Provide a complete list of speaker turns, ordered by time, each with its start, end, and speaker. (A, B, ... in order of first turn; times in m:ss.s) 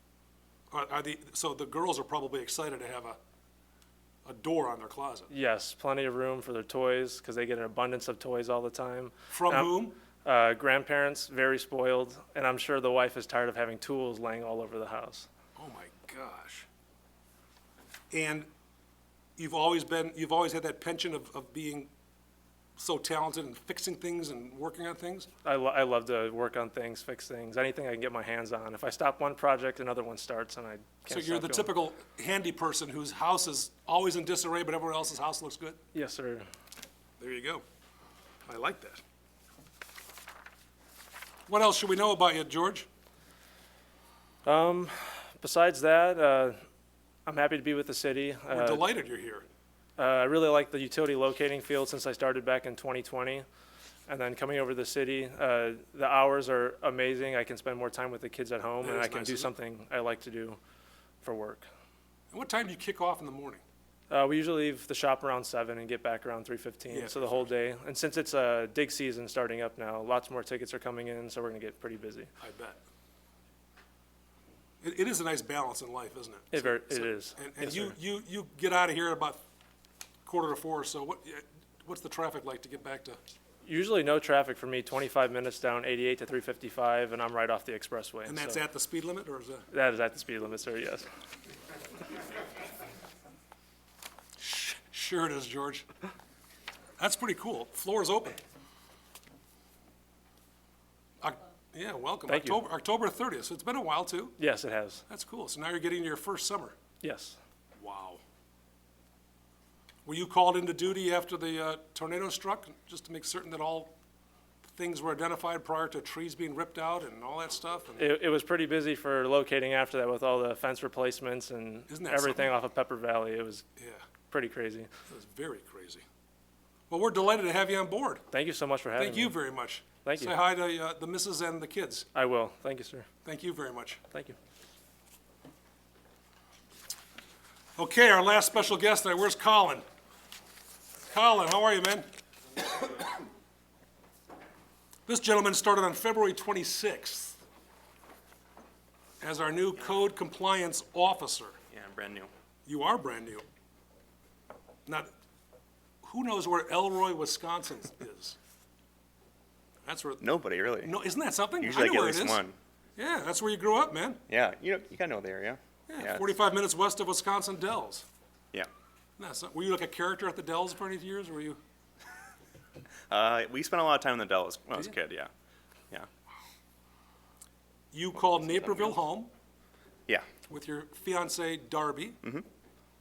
0:00.7-0:03.2 A
0:04.2-0:05.3 A
0:05.3-0:15.3 B
0:09.3-0:10.0 A
0:15.6-0:16.7 A
0:18.1-0:18.5 A
0:19.4-0:21.9 A
0:22.8-0:25.3 A
0:25.4-0:31.8 B
0:31.1-0:35.8 A
0:35.9-0:36.5 B
0:37.2-0:37.6 A
0:38.4-0:39.0 A
0:41.5-0:42.9 A
0:44.4-0:46.6 B
0:47.2-0:48.9 B
0:48.5-0:49.4 A
0:50.0-0:53.4 B
0:54.1-1:00.6 B
0:58.8-0:59.5 A
1:01.2-1:01.7 B
1:02.3-1:03.6 A
1:04.1-1:12.3 B
1:06.9-1:07.5 A
1:12.4-1:12.8 A
1:14.8-1:19.4 A
1:16.5-1:17.9 B
1:20.2-1:23.2 A
1:23.7-1:28.6 B
1:28.3-1:29.7 A
1:29.7-1:31.1 B
1:34.4-1:35.9 A
1:37.0-1:38.4 A
1:41.2-1:44.4 A
1:42.3-1:42.6 B
1:44.4-1:45.0 B
1:45.1-1:46.8 A
1:47.0-1:47.4 B
1:47.8-1:48.2 A
1:50.0-1:53.9 A
1:54.8-1:58.1 A
1:58.0-2:03.6 B
2:01.9-2:02.5 A
2:03.8-2:04.0 A
2:04.3-2:04.9 B
2:05.1-2:06.0 A
2:06.9-2:08.2 A
2:08.3-2:09.4 B
2:09.0-2:12.1 A
2:10.0-2:10.4 B
2:12.1-2:13.1 B
2:13.2-2:14.0 A
2:14.1-2:14.4 B
2:17.8-2:19.8 A
2:21.1-2:22.1 A
2:25.1-2:27.4 A
2:29.2-2:31.6 A
2:31.7-2:32.3 C
2:32.7-2:33.5 A
2:36.0-2:38.4 A
2:39.8-2:40.3 A
2:40.2-2:40.9 C
2:40.8-2:42.4 A
2:41.6-2:42.6 C
2:43.0-2:44.2 A
2:44.3-2:46.3 C
2:45.9-2:48.1 A
2:49.2-2:51.6 A
2:53.1-2:55.3 C
2:57.9-2:59.3 A
2:58.3-2:58.9 C
3:00.5-3:02.2 A